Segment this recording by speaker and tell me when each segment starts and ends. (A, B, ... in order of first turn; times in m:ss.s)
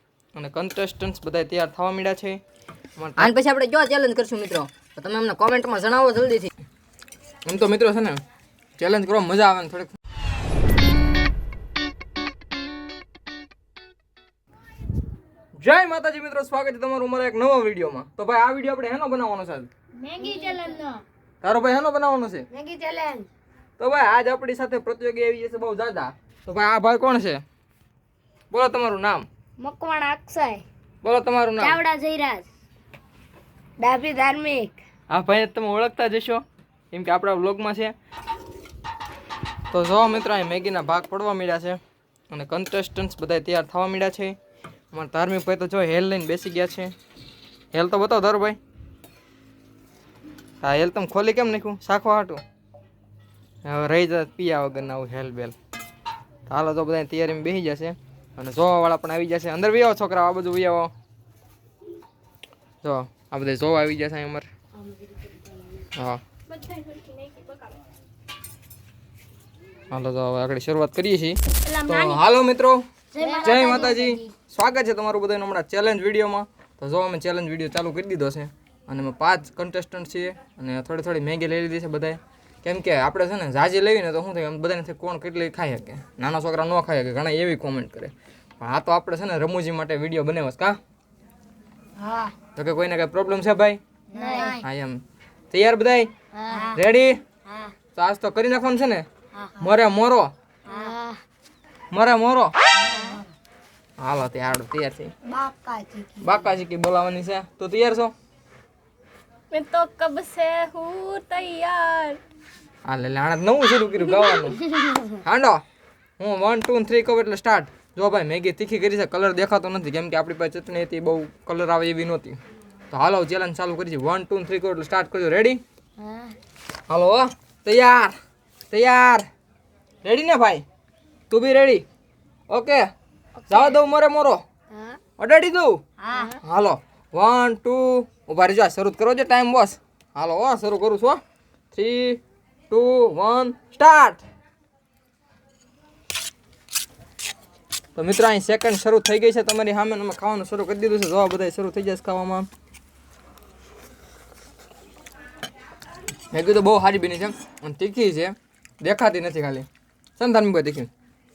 0:00.4-0:02.4 A
0:03.0-0:03.3 A
0:03.2-0:06.5 B
0:07.5-0:08.2 A
0:08.8-0:10.0 A
0:15.6-0:19.7 A
0:20.1-0:21.0 C
0:21.4-0:22.5 A
0:22.5-0:23.3 C
0:23.8-0:27.4 A
0:28.5-0:29.3 A
0:29.6-0:30.6 C
0:31.0-0:31.8 A
0:31.6-0:32.5 C
0:33.8-0:34.8 C
0:35.1-0:37.9 A
0:39.7-0:41.8 A
0:42.3-0:44.4 A
0:44.9-0:46.9 A
0:47.7-0:48.6 A
0:50.6-0:52.4 A
0:53.6-0:55.6 A
0:56.5-1:00.9 A
1:02.8-1:04.5 A
1:06.0-1:06.2 A
1:06.5-1:07.9 D
1:09.9-1:12.8 A
1:11.6-1:12.2 D
1:13.2-1:14.3 C
1:13.2-1:14.1 B
1:13.4-1:30.8 A
1:32.0-1:32.3 C
1:32.6-1:33.8 A
1:34.1-1:34.6 C
1:34.1-1:34.6 B
1:34.4-1:36.1 A
1:36.4-1:36.8 C
1:36.7-1:37.2 A
1:38.0-1:39.1 A
1:39.6-1:40.3 A
1:40.7-1:41.2 C
1:41.9-1:42.5 A
1:42.8-1:43.2 C
1:44.0-1:45.1 A
1:45.3-1:46.4 C
1:46.2-1:48.1 A
1:49.5-1:52.2 D
1:52.9-1:55.6 A
1:54.1-1:54.6 D
1:56.2-2:02.4 A
2:02.9-2:05.6 A
2:06.0-2:06.3 C
2:06.9-2:08.2 A
2:08.7-2:09.3 A
2:10.0-2:10.6 A
2:11.3-2:11.8 A
2:12.5-2:12.9 A
2:13.4-2:13.8 C
2:13.5-2:14.4 A
2:14.7-2:15.0 C
2:15.2-2:15.8 A
2:16.0-2:16.4 C
2:16.4-2:21.2 A
2:21.7-2:24.2 A
2:28.0-2:32.5 A
2:36.3-2:39.7 A
2:40.2-2:40.9 A